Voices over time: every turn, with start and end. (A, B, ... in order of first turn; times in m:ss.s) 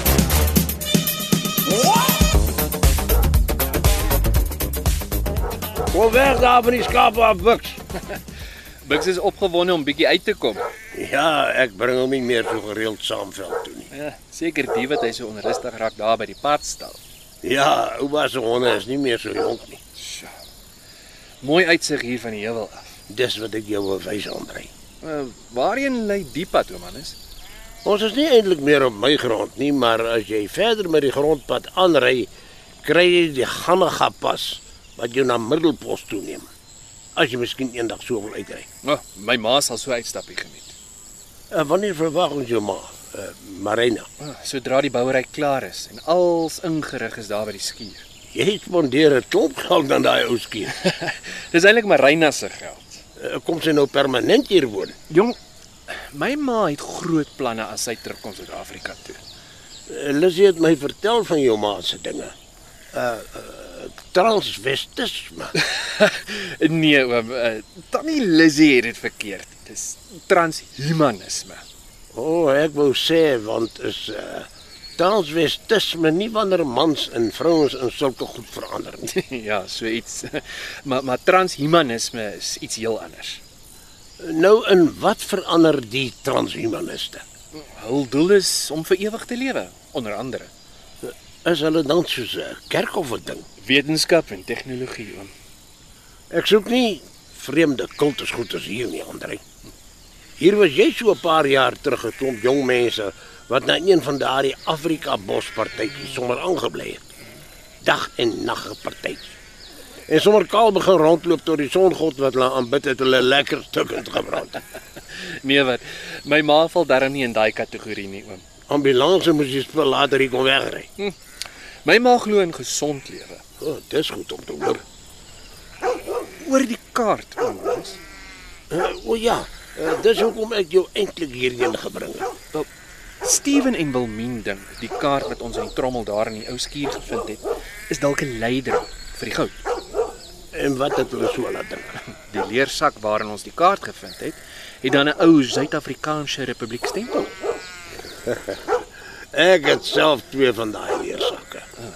0:05.9-0:07.8 A
0:08.8-0:10.7 B
0:10.9-0:13.9 A
0:13.9-0:17.0 B
0:17.4-0:19.8 A
0:20.0-0:20.3 B
0:21.4-0:22.9 B
0:23.1-0:24.7 A
0:25.0-0:27.2 B
0:27.8-0:32.3 A
0:32.8-0:36.5 A
0:37.2-0:38.7 A
0:38.8-0:40.8 B
0:41.5-0:44.1 A
0:44.2-0:48.0 B
0:48.3-0:50.7 A
0:50.7-0:53.0 B
0:53.2-0:55.0 A
0:55.1-0:55.4 B
0:55.9-0:59.2 B
0:59.9-1:02.3 A
1:02.9-1:05.5 A
1:05.6-1:11.6 B
1:12.1-1:19.1 A
1:19.1-1:23.4 B
1:24.2-1:27.2 A
1:27.5-1:30.5 B
1:31.0-1:33.5 A
1:33.6-1:35.3 B
1:36.3-1:39.4 A
1:40.4-1:47.1 A
1:47.8-1:49.3 A
1:50.1-1:54.6 A
1:55.1-1:58.4 B
1:58.7-2:00.9 A
2:01.8-2:03.4 B
2:03.6-2:04.8 A
2:06.4-2:08.0 B
2:08.7-2:12.3 A
2:13.2-2:19.6 B
2:20.5-2:22.0 A
2:22.3-2:27.3 B
2:28.3-2:28.6 A
2:29.3-2:31.7 A